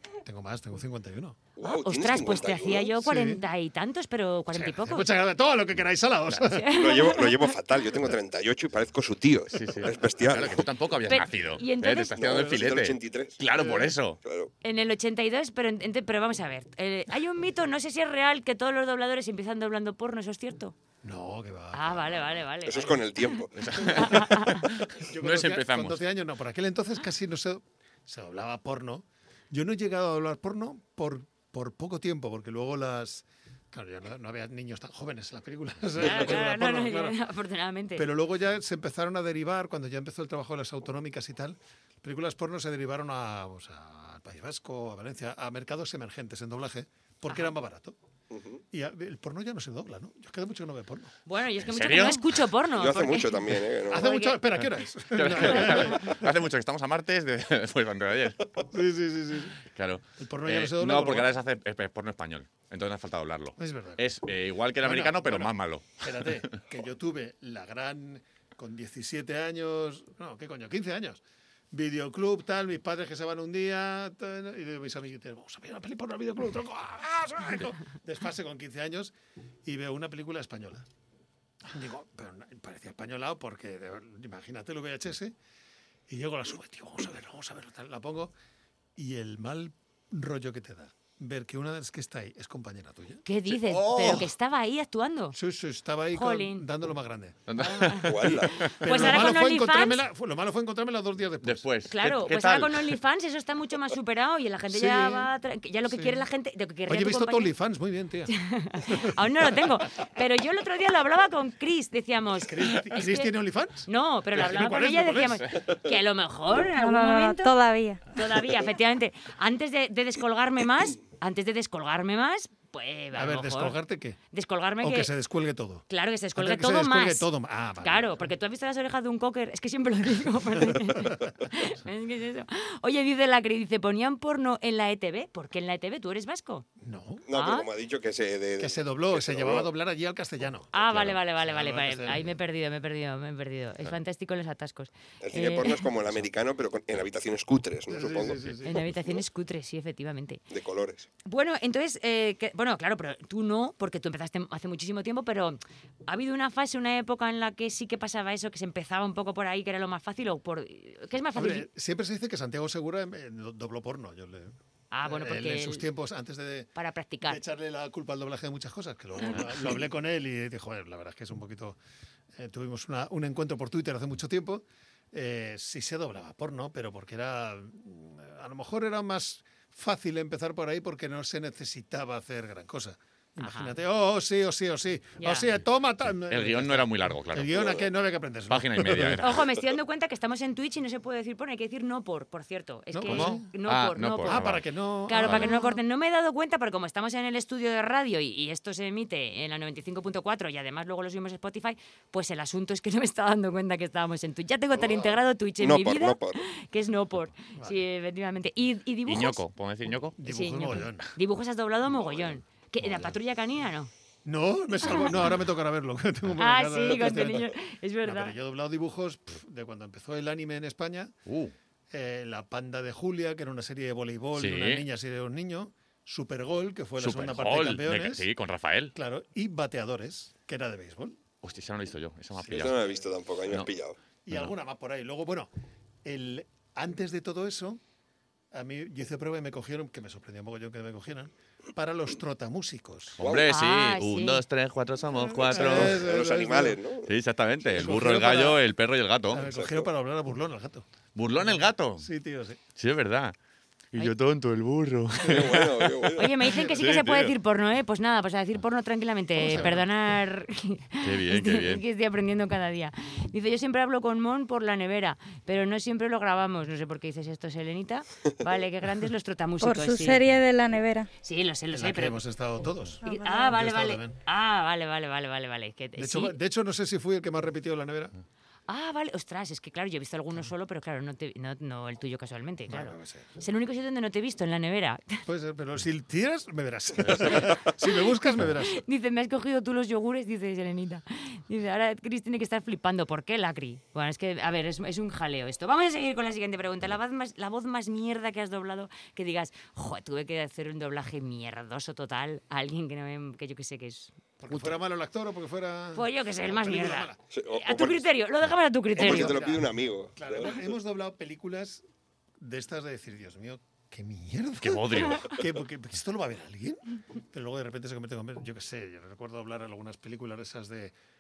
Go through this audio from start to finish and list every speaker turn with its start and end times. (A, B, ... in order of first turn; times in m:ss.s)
0:00.2-0:01.4 A
0:01.6-0:02.9 B
0:01.6-0:05.1 C
0:03.0-0:03.4 A
0:04.5-0:06.7 A
0:06.4-0:07.5 C
0:06.7-0:10.7 B
0:09.5-0:14.2 D
0:11.1-0:12.2 C
0:12.1-0:13.4 B
0:13.5-0:13.9 A
0:14.2-0:14.5 B
0:14.6-0:20.8 C
0:21.0-0:22.4 A
0:21.7-0:23.1 C
0:22.7-0:23.8 B
0:23.6-0:26.0 D
0:23.9-0:37.2 A
0:24.0-0:24.6 C
0:36.0-0:38.0 C
0:38.0-0:48.0 A
0:47.3-0:47.5 C
0:48.3-0:48.6 B
0:48.7-0:51.1 A
0:51.3-0:54.4 C
0:51.6-0:52.4 D
0:52.8-0:54.2 B
0:53.9-0:56.3 A
0:55.2-0:58.5 D
0:58.7-0:59.6 A
0:59.7-1:06.4 D
1:00.2-1:01.3 A
1:03.6-1:04.1 A
1:04.8-1:11.2 A
1:11.7-1:19.1 A
1:19.6-1:20.9 A
1:21.7-1:25.4 A
1:26.1-1:28.3 A
1:29.0-1:33.2 A
1:33.2-1:35.4 C
1:33.6-1:34.3 D
1:35.3-1:37.4 A
1:36.1-1:36.6 C
1:37.5-1:38.7 D
1:37.6-1:40.0 C
1:38.0-1:38.8 B
1:38.3-1:41.7 A
1:41.4-1:43.0 D
1:41.9-1:47.5 C
1:44.7-1:45.3 A
1:45.9-1:46.2 A
1:46.9-1:48.3 A
1:48.3-1:53.3 C
1:48.8-1:49.6 A
1:52.4-1:55.7 A
1:53.9-1:57.6 C
1:56.7-1:58.0 E
1:58.1-2:03.8 C
2:03.1-2:04.2 A
2:04.3-2:05.1 C
2:04.8-2:08.3 A
2:05.9-2:07.3 C
2:07.8-2:16.7 C
2:10.7-2:11.3 A
2:16.8-2:17.3 A
2:17.3-2:19.7 B
2:17.3-2:17.7 C
2:18.6-2:20.7 A
2:20.7-2:25.8 C
2:21.4-2:22.4 A
2:25.2-2:29.1 B
2:27.9-2:28.8 A
2:28.6-2:30.4 C
2:30.5-2:31.1 B
2:31.3-2:41.7 C
2:41.4-2:46.7 A
2:44.9-2:45.8 C
2:46.8-2:47.4 C
2:47.2-2:51.8 A
2:52.4-3:09.4 A
3:03.4-3:03.7 C
3:05.2-3:05.5 C
3:06.0-3:07.6 D
3:07.5-3:07.9 B
3:08.5-3:09.3 D
3:09.2-3:14.5 C
3:12.9-3:13.5 A
3:13.1-3:14.7 D
3:14.3-3:15.8 A
3:15.1-3:29.4 C
3:24.8-3:26.4 B
3:29.1-3:30.2 D
3:30.2-3:31.1 A
3:30.2-3:33.9 C
3:32.0-3:32.4 B
3:34.2-3:41.1 A
3:34.9-3:35.1 C
3:36.4-3:38.4 C
3:41.3-3:41.5 D
3:41.9-3:48.3 A
3:44.3-3:44.9 D
3:47.0-3:48.9 D
3:49.0-3:51.2 A
3:51.4-3:52.8 D
3:52.4-3:52.9 A
3:52.5-3:54.0 B
3:54.3-3:55.5 A
3:56.0-3:57.8 A
3:58.5-4:03.2 A
4:03.2-4:06.0 D
4:03.2-4:03.5 B
4:03.5-4:04.4 C
4:05.1-4:06.8 A
4:05.5-4:07.1 B
4:07.1-4:09.5 D
4:07.7-4:08.6 A
4:09.3-4:10.9 A
4:09.4-4:09.9 B
4:11.2-4:12.1 D
4:11.4-4:12.6 A
4:12.8-4:13.4 D
4:13.9-4:16.1 D
4:15.2-4:16.4 B
4:16.2-4:30.2 C
4:16.4-4:16.8 A
4:16.8-4:17.3 D
4:19.4-4:19.9 A
4:21.0-4:21.8 D
4:29.6-4:31.1 E
4:31.2-4:32.2 C
4:31.7-4:34.2 A
4:33.0-4:33.5 E
4:33.0-4:36.4 C
4:36.0-4:38.1 A
4:38.7-4:45.2 C
4:42.7-4:43.3 A
4:45.3-4:48.8 A
4:48.7-5:04.7 C
5:04.4-5:07.2 A
5:06.0-5:09.4 C
5:07.3-5:08.1 B
5:08.9-5:11.8 A
5:09.0-5:10.6 B
5:12.4-5:20.9 A
5:14.6-5:15.3 D